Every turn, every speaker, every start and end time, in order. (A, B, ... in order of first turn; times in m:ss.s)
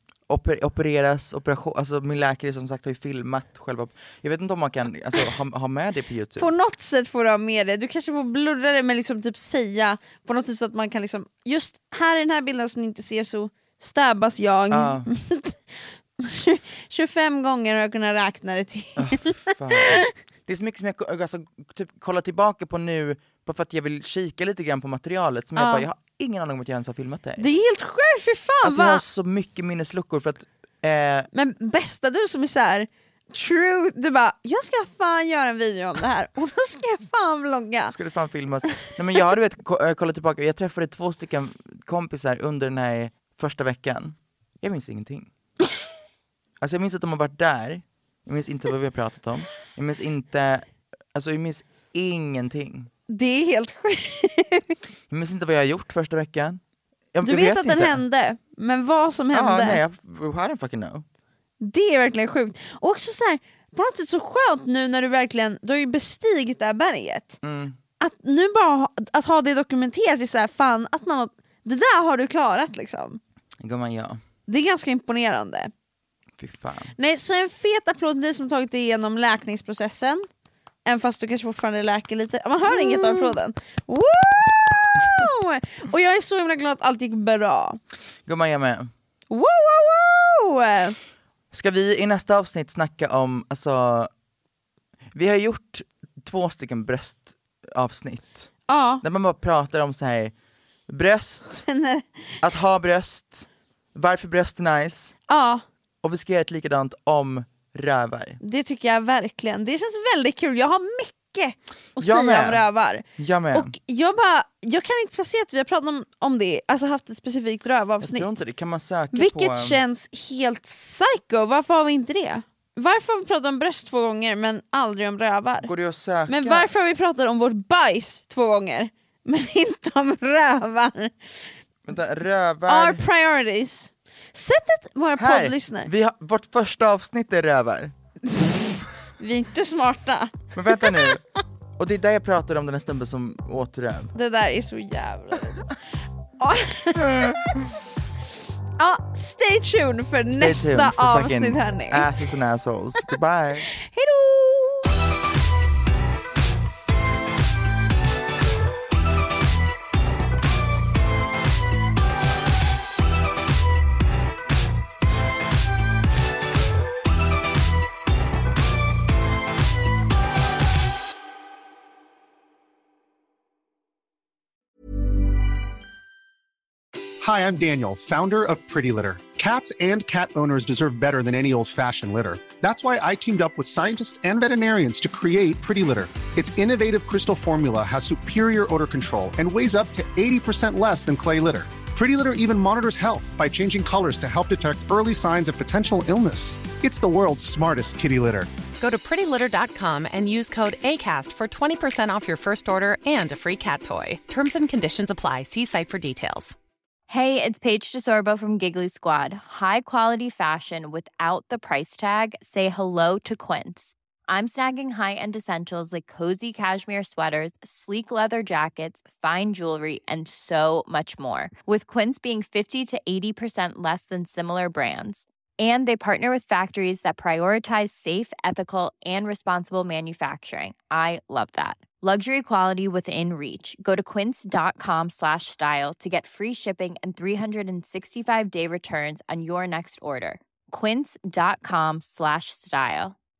0:00.3-0:06.5 A
0:06.4-0:20.1 B
0:14.7-0:15.1 A
0:19.0-0:27.4 A
0:25.6-0:25.9 B
0:27.4-0:29.0 B
0:28.6-0:31.3 A
0:31.3-0:37.9 B
0:37.9-0:45.3 A
0:46.6-0:52.9 A
0:53.1-0:54.8 B
0:55.1-0:56.6 A
0:57.1-0:58.0 A
0:57.2-0:59.8 B
0:59.3-1:01.0 A
1:01.6-1:07.4 B
1:07.4-1:07.8 A
1:08.0-1:13.2 B
1:13.6-1:14.2 A
1:14.5-1:15.7 B
1:16.4-1:17.0 A
1:17.0-1:20.3 B
1:20.9-1:27.8 B
1:22.7-1:23.3 A
1:28.3-1:28.9 A
1:29.3-1:31.0 B
1:31.5-1:34.1 A
1:35.1-1:40.3 A
1:38.7-1:39.0 B
1:40.9-1:41.6 A
1:41.7-1:42.4 B
1:42.4-1:45.1 A
1:45.3-1:45.6 B
1:46.0-1:48.4 A
1:48.4-1:58.4 B
1:52.0-1:52.6 A
1:53.2-1:53.7 A
1:58.0-1:59.8 A
1:59.1-2:05.7 B
2:05.6-2:06.7 A
2:06.3-2:11.5 B
2:11.9-2:13.0 A
2:12.7-2:15.9 B
2:15.2-2:17.9 A
2:19.2-2:21.2 B
2:20.6-2:21.2 A
2:21.8-2:24.1 A
2:24.1-2:25.7 B
2:26.4-2:27.4 B
2:27.0-2:27.4 A
2:28.8-2:32.1 B
2:30.3-2:33.7 A
2:33.8-2:34.9 B
2:57.2-3:18.5 C
3:18.8-3:26.6 D
3:27.1-4:03.2 E